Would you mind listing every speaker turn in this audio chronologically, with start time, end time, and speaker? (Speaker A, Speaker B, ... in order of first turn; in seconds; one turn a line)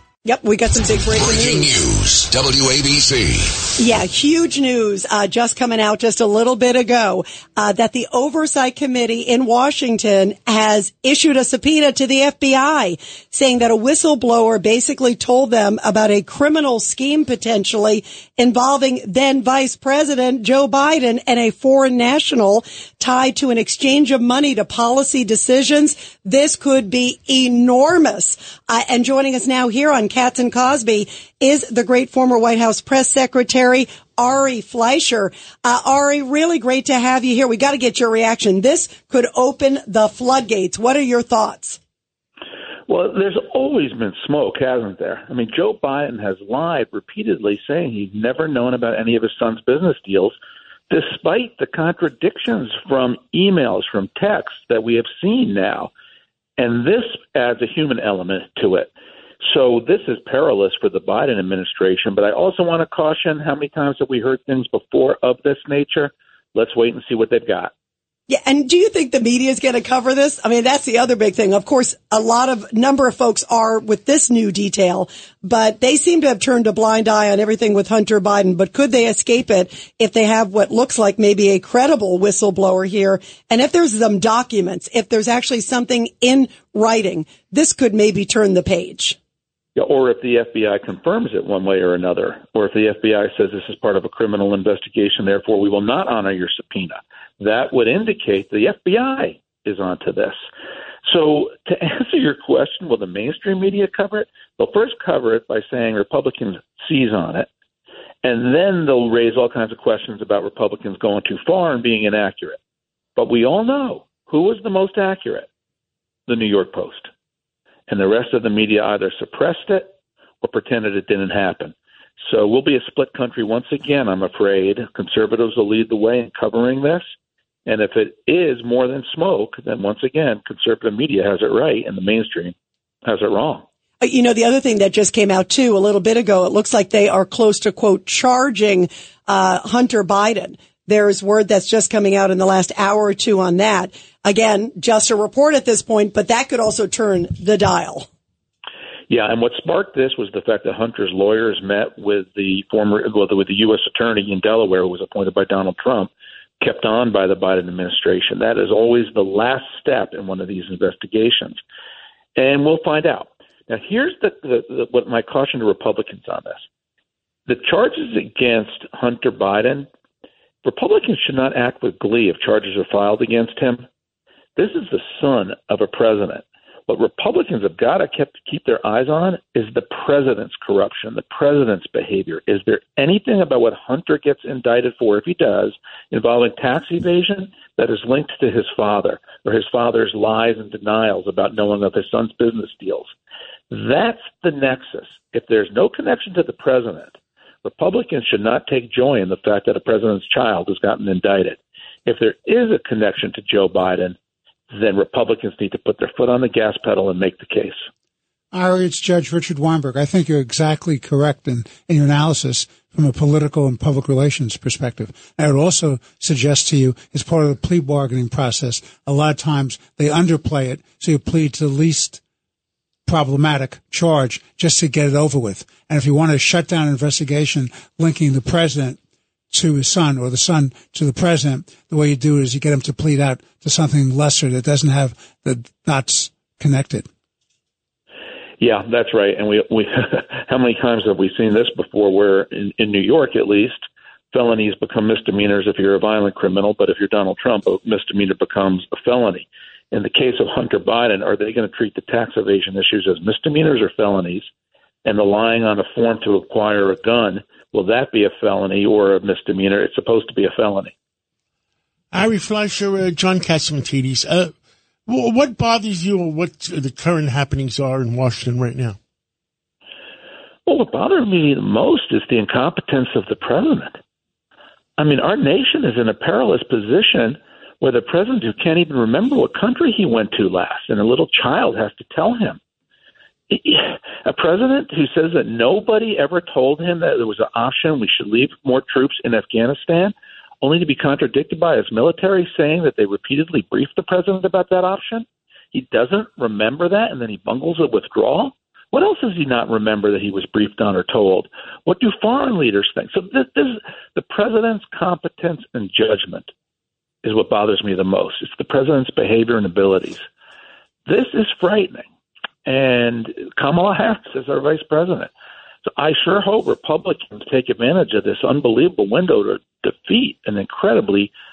Speaker A: 0.2-1.7
Speaker B: 1.2-3.5
Speaker A: 3.8-41.8
Speaker C: 42.9-50.4
Speaker C: 50.9-55.9
Speaker C: 56.6-58.9
Speaker C: 59.4-67.7
Speaker A: 68.3-89.2
Speaker C: 89.8-100.4
Speaker C: 101.1-107.5
Speaker C: 108.2-112.6
Speaker C: 113.2-115.5
Speaker C: 116.3-117.1
Speaker C: 117.9-119.9
Speaker C: 120.4-127.0
Speaker C: 127.7-132.5
Speaker C: 133.1-133.6
Speaker A: 134.0-148.1
Speaker C: 149.1-161.6
Speaker C: 162.4-166.6
Speaker C: 167.5-169.9
Speaker C: 170.6-173.9
Speaker C: 174.6-193.1
Speaker C: 193.7-204.2
Speaker C: 204.7-207.8
Speaker D: 208.5-222.2
Speaker D: 223.1-229.0
Speaker D: 229.5-237.1
Speaker C: 238.6-243.8
Speaker C: 244.3-254.5
Speaker C: 255.1-260.9
Speaker E: 262.1-264.5
Speaker E: 265.1-269.0
Speaker C: 270.7-274.0
Speaker C: 275.0-282.6
Speaker C: 283.5-306.5
Speaker C: 307.2-310.2
Speaker C: 311.1-312.1
Speaker C: 312.7-315.3
Speaker C: 315.9-321.3